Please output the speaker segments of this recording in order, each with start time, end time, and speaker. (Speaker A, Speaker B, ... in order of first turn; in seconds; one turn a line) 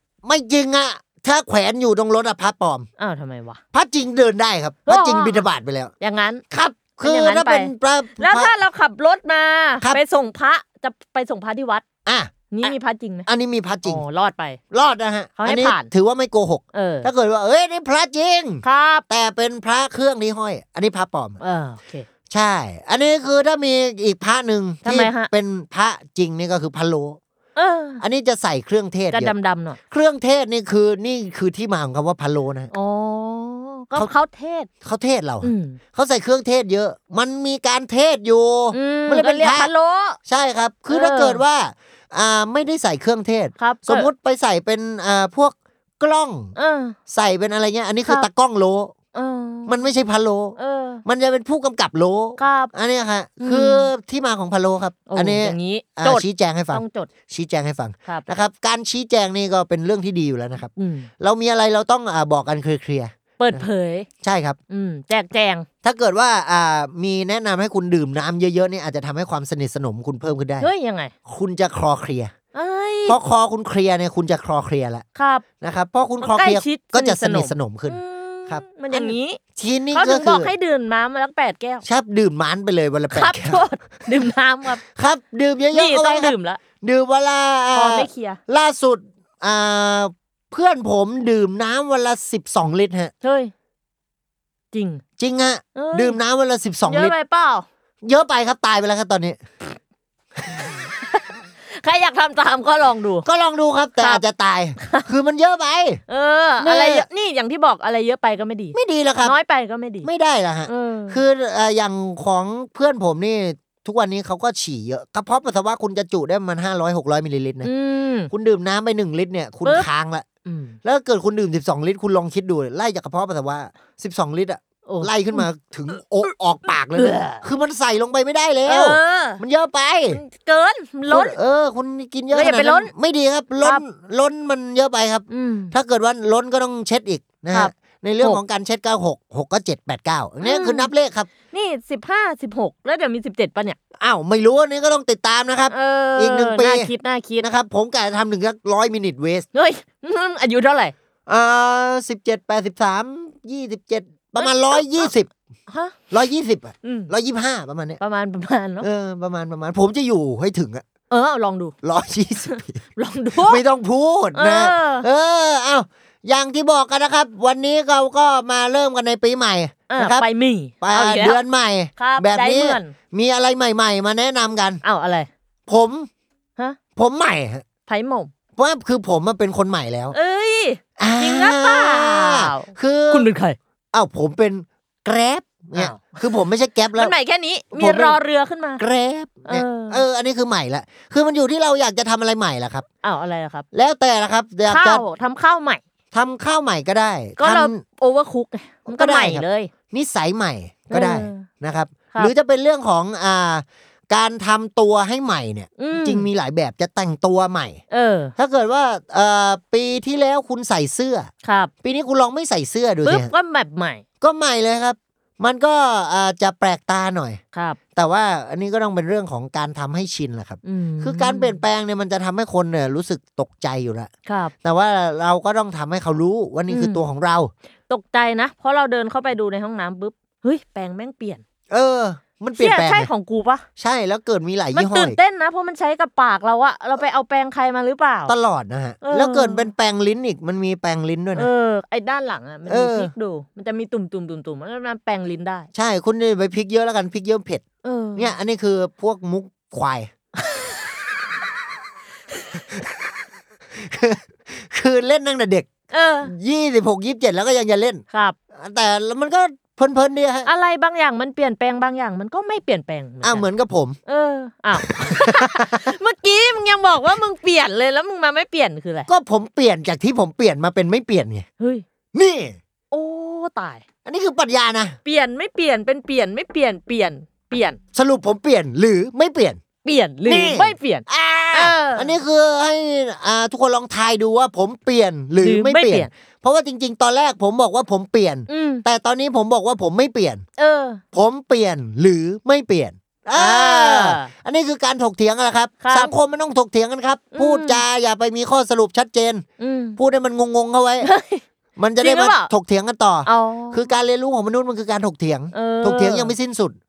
Speaker A: 0.2-2.9
Speaker B: 3.0-3.6
Speaker A: 3.7-5.9
Speaker B: 4.8-5.5
Speaker B: 6.0-6.4
Speaker A: 6.5-8.5
Speaker B: 7.0-11.8
Speaker A: 12.0-12.7
Speaker B: 12.5-13.3
Speaker A: 13.3-14.0
Speaker B: 13.8-14.6
Speaker A: 14.7-21.4
Speaker B: 15.4-15.9
Speaker B: 16.7-17.1
Speaker B: 18.6-19.0
Speaker B: 21.4-22.1
Speaker A: 22.3-27.2
Speaker B: 24.8-25.3
Speaker B: 27.5-28.0
Speaker A: 28.0-29.3
Speaker B: 29.1-29.8
Speaker A: 29.9-32.7
Speaker B: 32.7-34.7
Speaker A: 34.8-39.7
Speaker B: 35.4-35.8
Speaker B: 38.7-40.2
Speaker A: 40.2-46.5
Speaker B: 40.9-41.4
Speaker B: 43.6-44.1
Speaker B: 46.5-46.9
Speaker A: 47.1-48.9
Speaker B: 49.1-49.8
Speaker A: 49.7-63.7
Speaker B: 50.5-51.0
Speaker B: 52.4-52.7
Speaker B: 53.4-53.9
Speaker B: 55.1-57.1
Speaker B: 60.8-61.1
Speaker B: 63.4-64.1
Speaker A: 64.2-64.6
Speaker B: 64.7-65.7
Speaker A: 65.8-70.7
Speaker B: 70.6-71.1
Speaker A: 71.2-72.3
Speaker B: 72.5-73.2
Speaker A: 73.0-75.0
Speaker B: 75.1-75.4
Speaker A: 75.6-80.5
Speaker B: 76.2-79.4
Speaker B: 79.9-81.8
Speaker A: 81.8-84.2
Speaker B: 83.1-84.8
Speaker A: 84.7-93.1
Speaker B: 85.7-86.6
Speaker B: 87.7-88.4
Speaker B: 93.2-93.5
Speaker B: 94.7-95.0
Speaker A: 95.2-97.2
Speaker B: 95.7-96.2
Speaker B: 96.8-97.6
Speaker A: 98.0-99.4
Speaker B: 101.6-103.2
Speaker A: 103.2-106.0
Speaker B: 104.0-104.2
Speaker B: 104.8-105.0
Speaker B: 106.1-110.1
Speaker A: 106.6-107.1
Speaker A: 108.7-109.3
Speaker A: 110.0-117.7
Speaker B: 110.7-111.2
Speaker B: 117.6-118.3
Speaker A: 118.3-120.2
Speaker B: 120.4-120.8
Speaker A: 120.8-130.2
Speaker B: 124.8-125.5
Speaker B: 126.9-127.4
Speaker B: 128.6-129.4
Speaker B: 130.1-131.4
Speaker A: 131.1-141.3
Speaker B: 132.3-132.9
Speaker B: 135.3-135.7
Speaker B: 137.5-138.4
Speaker B: 140.4-140.9
Speaker B: 141.5-143.8
Speaker A: 144.0-149.4
Speaker B: 145.7-147.5
Speaker B: 149.5-150.9
Speaker A: 151.3-155.3
Speaker B: 154.4-155.1
Speaker B: 155.7-155.9
Speaker A: 156.1-158.0
Speaker B: 156.8-157.1
Speaker B: 158.0-158.9
Speaker A: 158.8-160.8
Speaker B: 161.1-161.7
Speaker A: 161.8-162.8
Speaker B: 162.4-163.6
Speaker A: 163.3-170.3
Speaker B: 164.3-165.1
Speaker B: 169.9-171.4
Speaker A: 170.8-174.8
Speaker B: 172.0-172.9
Speaker B: 174.8-175.3
Speaker A: 175.7-176.1
Speaker A: 176.9-177.6
Speaker B: 177.8-178.3
Speaker A: 178.6-180.2
Speaker B: 180.1-183.6
Speaker A: 181.0-183.3
Speaker A: 183.9-187.1
Speaker B: 185.8-186.3
Speaker B: 186.9-188.8
Speaker A: 187.7-188.2
Speaker A: 188.8-192.8
Speaker B: 189.4-190.0
Speaker B: 193.0-193.6
Speaker A: 193.7-195.0
Speaker B: 194.7-195.8
Speaker A: 196.1-197.8
Speaker B: 197.4-199.7
Speaker A: 198.9-207.8
Speaker B: 200.9-201.4
Speaker B: 205.8-206.3
Speaker B: 207.9-208.3
Speaker A: 208.4-211.3
Speaker B: 211.4-211.7
Speaker A: 211.8-213.3
Speaker B: 213.0-214.0
Speaker A: 214.2-217.4
Speaker B: 217.5-217.8
Speaker A: 217.9-224.1
Speaker B: 220.6-221.6
Speaker B: 224.2-224.5
Speaker A: 224.6-227.5
Speaker B: 226.7-227.0
Speaker B: 227.9-231.4
Speaker A: 231.7-233.1
Speaker B: 232.6-233.6
Speaker A: 233.8-235.2
Speaker B: 234.7-238.3
Speaker A: 238.3-241.5
Speaker B: 239.0-239.7
Speaker B: 241.3-245.7
Speaker A: 242.7-243.1
Speaker A: 245.7-247.6
Speaker B: 247.8-248.3
Speaker A: 248.2-250.1
Speaker A: 252.6-252.9
Speaker A: 253.8-255.7
Speaker B: 255.9-256.3
Speaker A: 256.2-258.0
Speaker A: 258.6-260.5
Speaker B: 260.4-263.5
Speaker A: 263.2-264.0
Speaker B: 264.1-269.1
Speaker A: 264.8-265.9
Speaker A: 269.1-271.4
Speaker B: 271.6-271.8
Speaker A: 272.1-272.6
Speaker B: 272.9-273.8
Speaker A: 274.0-275.0
Speaker B: 275.0-277.8
Speaker A: 277.9-279.6
Speaker B: 279.8-282.1
Speaker A: 280.2-290.4
Speaker B: 285.4-286.1
Speaker B: 288.5-288.8
Speaker B: 290.6-291.0
Speaker A: 291.1-299.4
Speaker B: 293.3-294.3
Speaker B: 295.8-296.1
Speaker B: 297.3-297.8
Speaker B: 299.6-300.0
Speaker A: 300.0-301.1
Speaker B: 301.0-301.4
Speaker A: 301.8-306.7
Speaker B: 302.0-302.5
Speaker B: 303.2-303.9
Speaker B: 305.5-306.3